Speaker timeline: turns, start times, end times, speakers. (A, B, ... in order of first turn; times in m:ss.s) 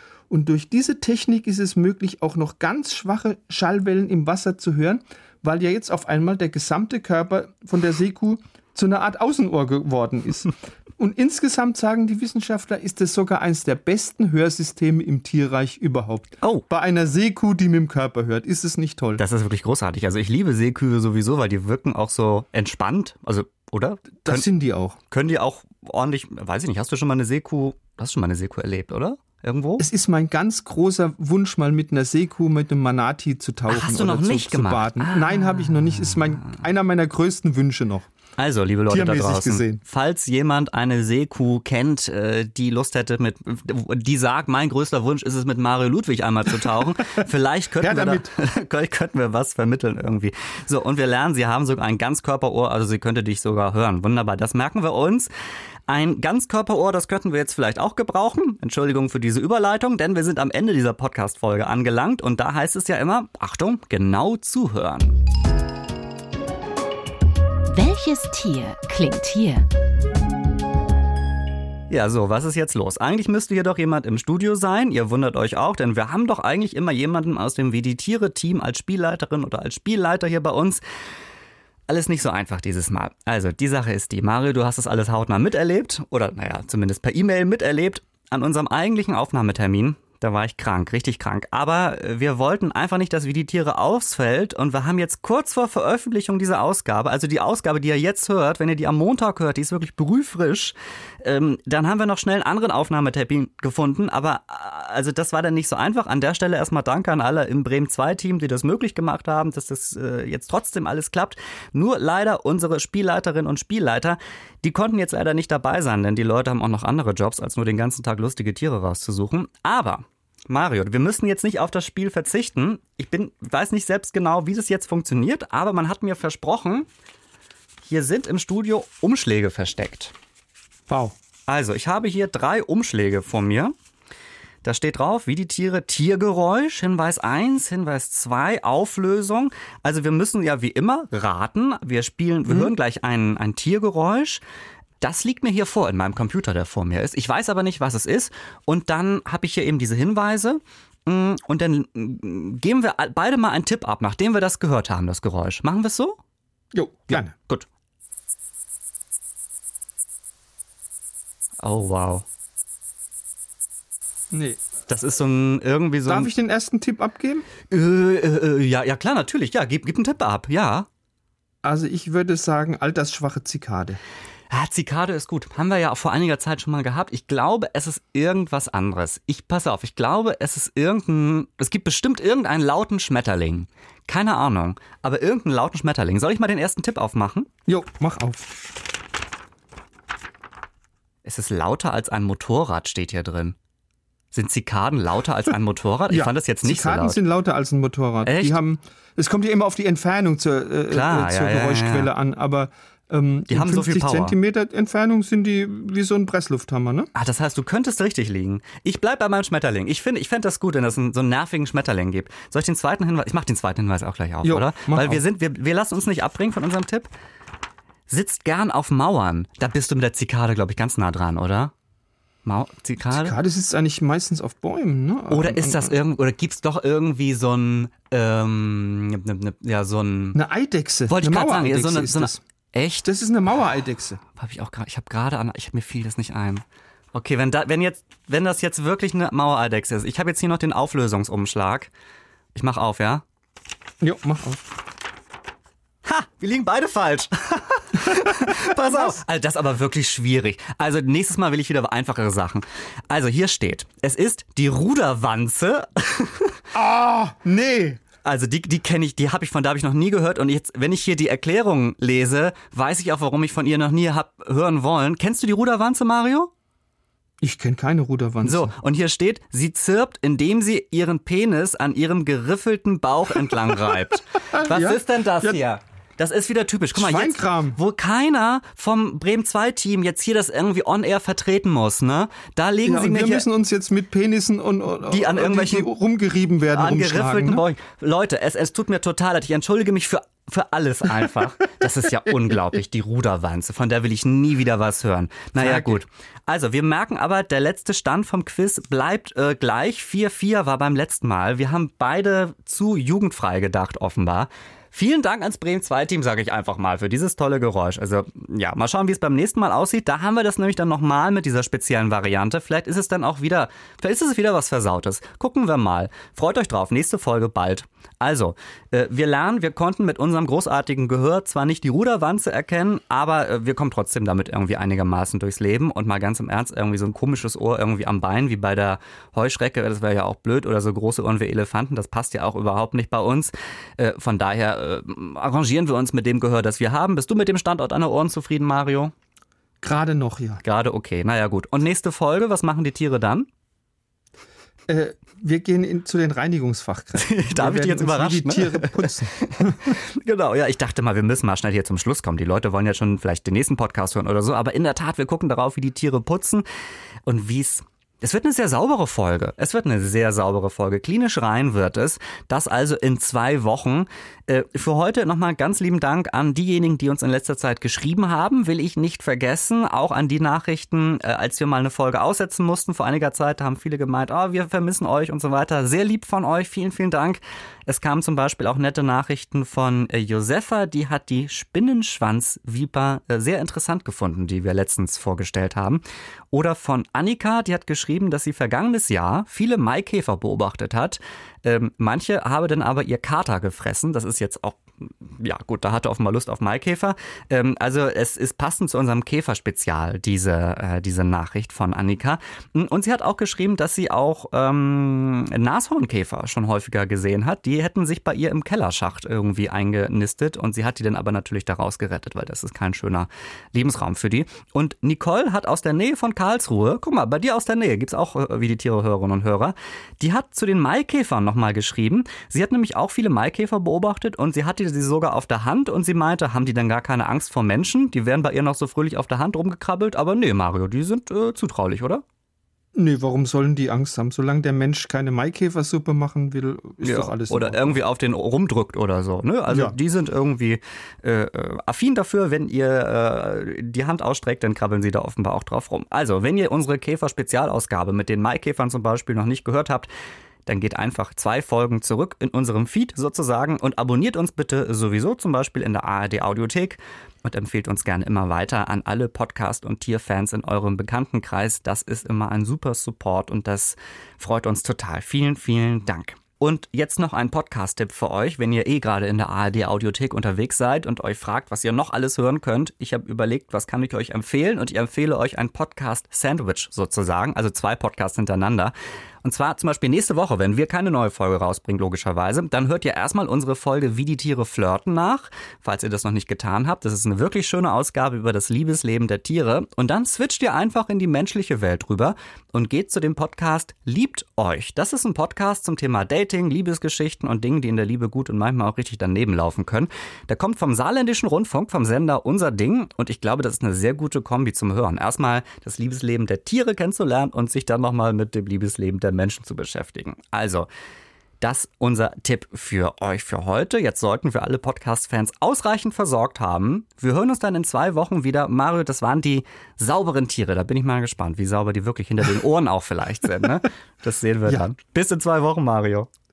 0:00.3-0:19.2 A
0:19.2-0:24.4 B
0:24.2-0:25.0 A
0:25.1-0:29.9 B
0:29.8-0:38.1 A
0:33.7-0:36.6 B
0:38.4-0:55.3 B
0:38.9-0:39.8 A
0:47.8-0:48.3 A
0:55.9-1:05.1 B
1:07.7-1:09.7 C
1:11.9-1:20.8 B
1:21.9-2:06.9 B
2:07.8-2:10.1 B
2:10.9-2:11.1 A
2:11.5-2:13.7 B
2:14.6-2:24.4 B
2:25.0-2:36.2 B
2:36.7-2:37.3 A
2:37.1-2:37.7 B
2:41.6-2:42.2 B
2:44.3-2:44.6 A
2:44.9-2:46.3 B
2:46.0-2:47.4 A
2:47.7-2:50.9 B
2:51.6-2:54.0 A
2:54.5-3:07.5 B
3:07.7-3:08.5 A
3:11.2-3:13.6 B
3:14.3-3:17.2 B
3:16.1-3:27.1 A
3:18.2-3:18.6 B
3:20.9-3:22.1 B
3:23.5-3:24.3 B
3:27.1-3:37.1 B
3:34.4-3:35.2 A
3:38.1-3:41.7 B
3:42.4-3:43.3 B
3:43.1-3:46.0 A
3:45.3-3:50.4 B
3:50.3-3:52.4 A
3:51.1-3:53.1 B
3:53.0-3:54.2 A
3:54.4-4:01.9 B
4:02.5-4:03.2 B
4:04.0-4:04.6 A
4:06.0-4:16.6 B
4:08.0-4:09.2 A
4:16.7-4:18.0 A
4:18.2-4:26.5 B
4:27.4-4:28.7 A
4:28.4-4:43.4 B
4:34.5-4:35.6 A
4:36.9-4:37.8 A
4:42.8-4:47.6 A
4:45.1-4:45.9 B
4:46.7-5:39.1 B
4:55.6-4:56.0 A
5:39.8-5:40.6 A
5:40.6-5:43.5 B
5:44.9-5:49.9 A
5:47.1-5:56.6 B
5:57.2-6:26.0 B
6:26.5-7:12.2 B
7:12.9-7:18.0 A
7:17.0-7:30.1 B
7:19.7-7:20.0 A
7:30.6-7:58.9 B
7:59.4-8:30.9 B
8:31.6-8:46.3 B